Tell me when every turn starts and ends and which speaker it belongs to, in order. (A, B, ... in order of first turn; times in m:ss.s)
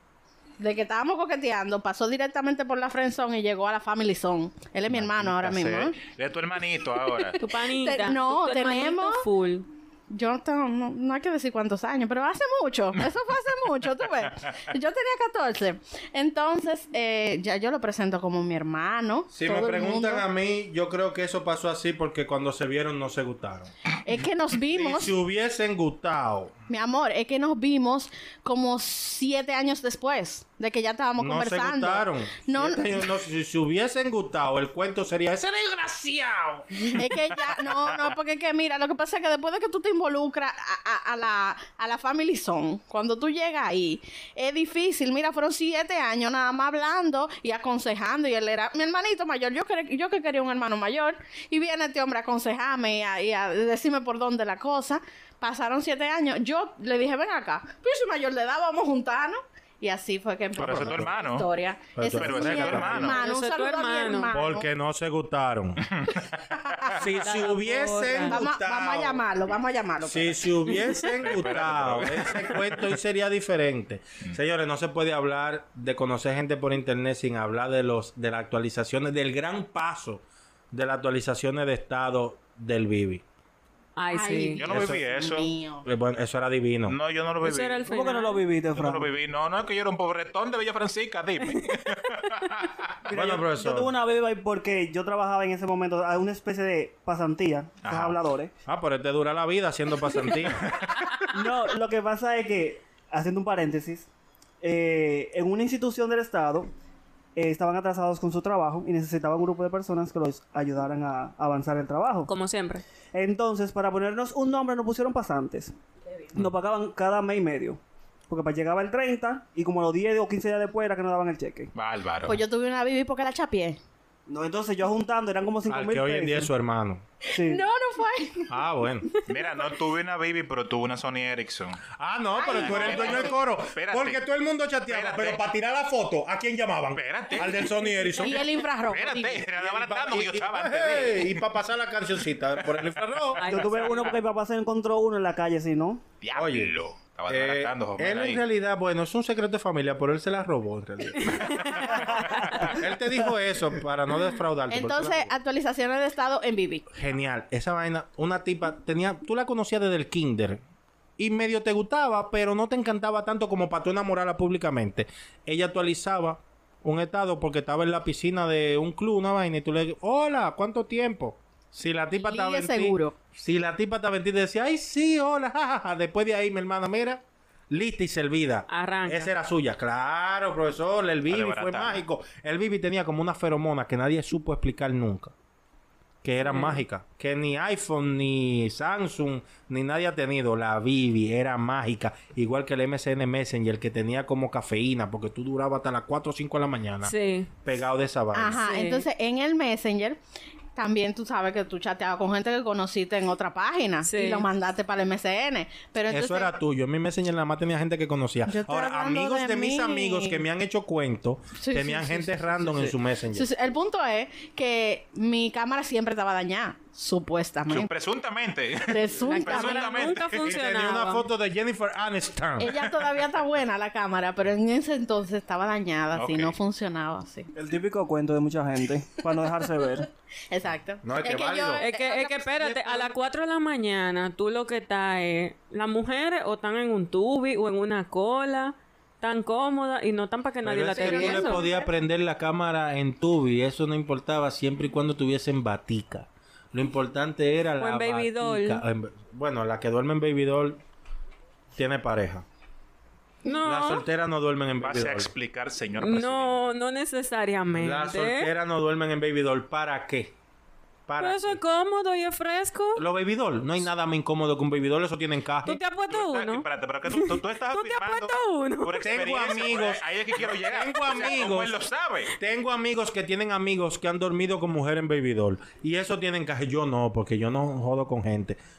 0:00.6-0:06.0 A
0:04.9-0:05.5 B
0:05.3-0:07.4 C
0:07.4-0:09.7 D
0:07.7-0:09.3 A
0:10.1-0:20.3 A
0:19.3-0:23.7 B
0:24.0-0:25.2 A
0:24.7-0:26.6 B
0:26.7-0:33.0 A
0:31.2-0:37.0 B
0:36.8-1:04.7 A
1:00.6-1:01.5 C
1:00.6-1:01.1 B
1:02.0-1:03.2 B
1:02.1-1:03.2 C
1:03.0-1:04.3 D
1:04.3-1:06.0 B
1:06.5-1:07.0 A
1:06.9-1:09.2 B
1:07.2-1:08.4 D
1:08.2-1:10.7 A
1:10.0-1:23.2 B
1:11.2-1:12.8 C
1:24.0-1:24.6 D
1:24.1-1:25.9 A
1:24.6-1:25.5 C
1:24.7-1:25.0 B
1:25.8-1:27.0 B
1:26.9-1:27.8 C
1:27.4-1:28.4 D
1:27.8-1:29.1 E
1:28.7-1:32.9 C
1:33.0-1:38.5 E
1:33.1-1:33.9 B
1:37.8-1:38.2 C
1:38.7-1:40.7 B
1:40.6-1:41.0 C
1:41.3-1:44.1 E
1:44.6-1:46.7 E
1:47.4-1:52.3 E
1:52.3-1:52.8 D
1:53.1-1:55.7 E
1:56.3-2:01.7 E
2:01.8-2:02.4 C
2:02.2-2:03.8 A
2:04.3-2:06.5 E
2:05.7-2:07.0 B
2:07.2-2:08.5 A
2:07.3-2:07.6 E
2:08.5-2:09.1 B
2:09.3-2:11.9 C
2:12.0-2:18.4 B
2:12.4-2:13.4 A
2:12.5-2:14.2 C
2:14.9-2:15.4 C
2:17.0-2:17.8 C
2:18.2-2:19.4 A
2:18.8-2:21.4 C
2:19.5-2:23.4 B
2:23.4-2:24.2 D
2:23.4-2:24.1 C
2:23.4-2:26.0 E
2:26.2-2:28.4 C
2:26.3-2:32.0 B
2:31.2-2:32.7 D
2:31.6-2:32.6 C
2:32.5-2:35.3 B
2:34.7-2:36.9 A
2:36.9-2:40.6 B
2:41.2-3:05.3 B
2:52.2-2:53.2 A
2:58.7-2:59.3 D
3:01.3-3:02.0 C
3:06.2-3:18.6 B
3:06.4-3:06.8 D
3:17.0-3:17.5 D
3:18.3-3:20.2 A
3:18.6-3:19.1 D
3:20.8-3:26.5 A
3:24.0-3:24.5 D
3:26.1-3:33.5 B
3:28.5-3:30.4 A
3:31.6-3:37.9 A
3:37.7-3:40.5 C
3:38.9-3:40.1 A
3:39.3-3:41.3 D
3:40.4-3:42.8 B
3:42.6-3:47.5 A
3:46.2-3:46.6 C
3:47.5-3:50.1 E
3:50.5-3:53.1 A
3:51.0-3:51.8 B
3:51.8-4:01.7 D
4:00.6-4:10.8 B
4:00.9-4:01.9 A
4:07.8-4:08.8 D
4:11.8-4:12.4 B
4:13.4-4:14.0 D
4:13.6-4:15.3 B
4:14.8-4:16.6 C
4:16.0-4:18.5 D
4:17.7-4:20.3 B
4:21.1-4:21.6 B
4:21.2-4:23.0 D
4:23.0-4:25.8 B
4:25.6-4:29.1 D
4:26.1-4:32.4 C
4:29.0-4:31.8 B
4:32.4-4:38.6 B